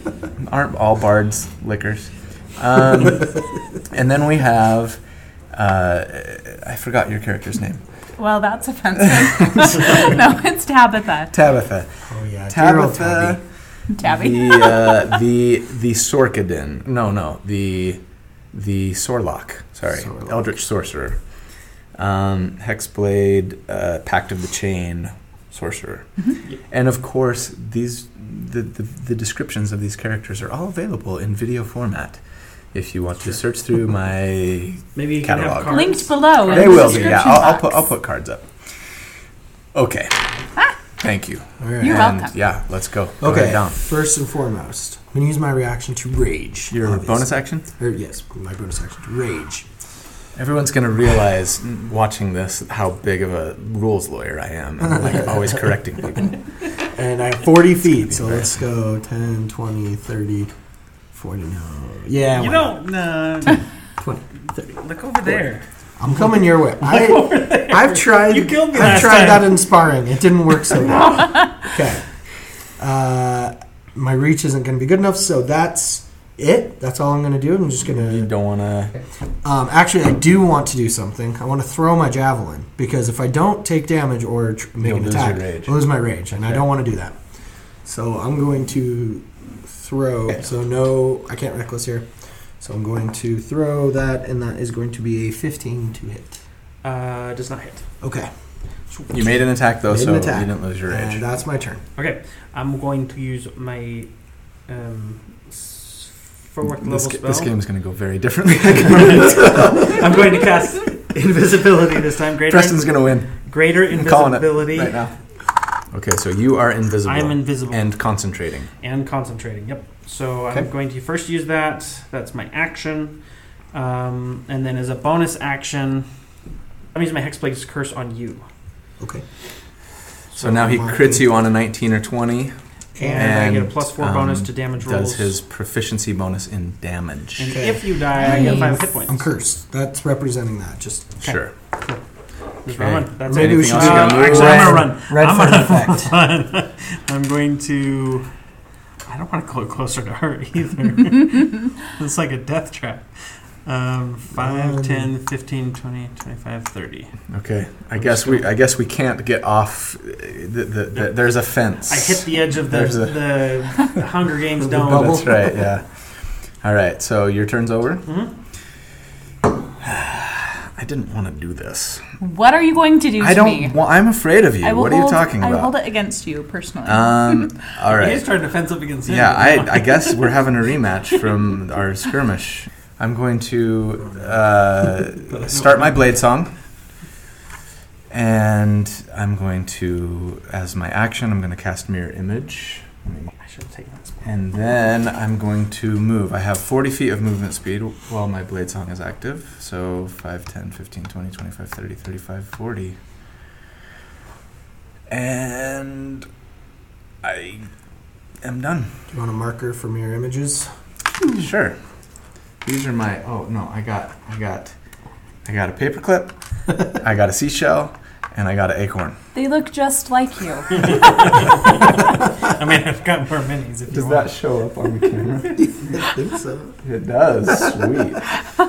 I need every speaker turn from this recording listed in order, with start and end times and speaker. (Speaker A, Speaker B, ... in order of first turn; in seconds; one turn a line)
Speaker A: 0.4-3.4
Speaker A: 3.9-5.0
Speaker A: 5.5-7.8
Speaker B: 8.2-11.3
Speaker A: 9.0-9.8
Speaker A: 11.3-11.9
Speaker C: 12.1-13.4
Speaker A: 12.5-13.4
Speaker B: 13.9-15.1
Speaker A: 14.0-18.0
Speaker A: 18.5-21.2
Speaker C: 20.0-20.4
Speaker A: 21.9-26.1
Speaker A: 26.7-32.2
Speaker A: 32.7-35.9
Speaker D: 34.9-37.3
Speaker B: 35.6-37.8
Speaker A: 36.5-38.5
Speaker A: 39.7-40.2
Speaker A: 41.0-43.8
Speaker C: 41.6-42.0
Speaker B: 41.8-42.3
Speaker C: 43.2-49.6
Speaker A: 46.7-47.7
Speaker A: 50.3-56.4
Speaker C: 54.8-55.3
Speaker C: 56.8-60.5
Speaker A: 58.0-58.5
Speaker C: 61.1-62.7
Speaker D: 62.3-63.6
Speaker C: 64.0-64.6
Speaker D: 64.6-65.6
Speaker C: 66.0-72.0
Speaker D: 66.1-69.6
Speaker D: 70.7-71.3
Speaker C: 72.8-78.3
Speaker A: 77.8-78.9
Speaker C: 79.4-87.2
Speaker A: 84.8-85.8
Speaker A: 86.3-86.7
Speaker C: 87.8-92.1
Speaker C: 92.6-96.4
Speaker D: 96.8-97.8
Speaker C: 98.0-98.3
Speaker C: 98.9-99.2
Speaker A: 99.1-101.2
Speaker C: 99.9-101.8
Speaker D: 102.0-104.1
Speaker D: 104.7-107.5
Speaker A: 106.8-110.0
Speaker D: 109.0-115.0
Speaker A: 112.5-113.3
Speaker A: 113.9-115.1
Speaker A: 115.9-118.7
Speaker D: 117.0-117.9
Speaker D: 118.8-123.2
Speaker D: 123.7-126.1
Speaker D: 126.9-128.4
Speaker A: 130.3-132.5
Speaker C: 130.4-131.2
Speaker C: 132.9-133.4
Speaker D: 133.0-135.3
Speaker A: 133.1-137.6
Speaker D: 137.4-139.3
Speaker C: 137.5-141.2
Speaker B: 138.1-138.8
Speaker D: 141.2-142.0
Speaker A: 141.2-141.5
Speaker D: 142.6-148.3
Speaker A: 142.8-144.9
Speaker C: 143.3-146.2
Speaker D: 149.1-153.1
Speaker D: 153.6-157.1
Speaker C: 154.4-155.1
Speaker A: 157.3-163.3
Speaker D: 158.0-158.4
Speaker D: 161.9-165.3
Speaker C: 164.8-165.4
Speaker A: 164.8-165.9
Speaker A: 166.6-168.1
Speaker A: 169.8-172.0
Speaker B: 172.2-173.8
Speaker A: 173.2-175.7
Speaker B: 174.6-177.5
Speaker A: 176.8-178.2
Speaker D: 177.8-180.4
Speaker A: 179.1-186.5
Speaker D: 185.3-186.0
Speaker A: 188.1-193.3
Speaker D: 193.4-194.2
Speaker A: 194.2-203.0
Speaker A: 205.1-206.3
Speaker A: 207.2-207.7
Speaker A: 208.4-208.9
Speaker C: 209.1-210.7
Speaker A: 211.3-211.8
Speaker A: 212.6-214.7
Speaker A: 215.4-216.3
Speaker A: 216.9-219.2
Speaker B: 219.3-221.1
Speaker D: 220.8-224.3
Speaker A: 223.9-225.6
Speaker C: 225.6-226.7
Speaker A: 226.8-228.2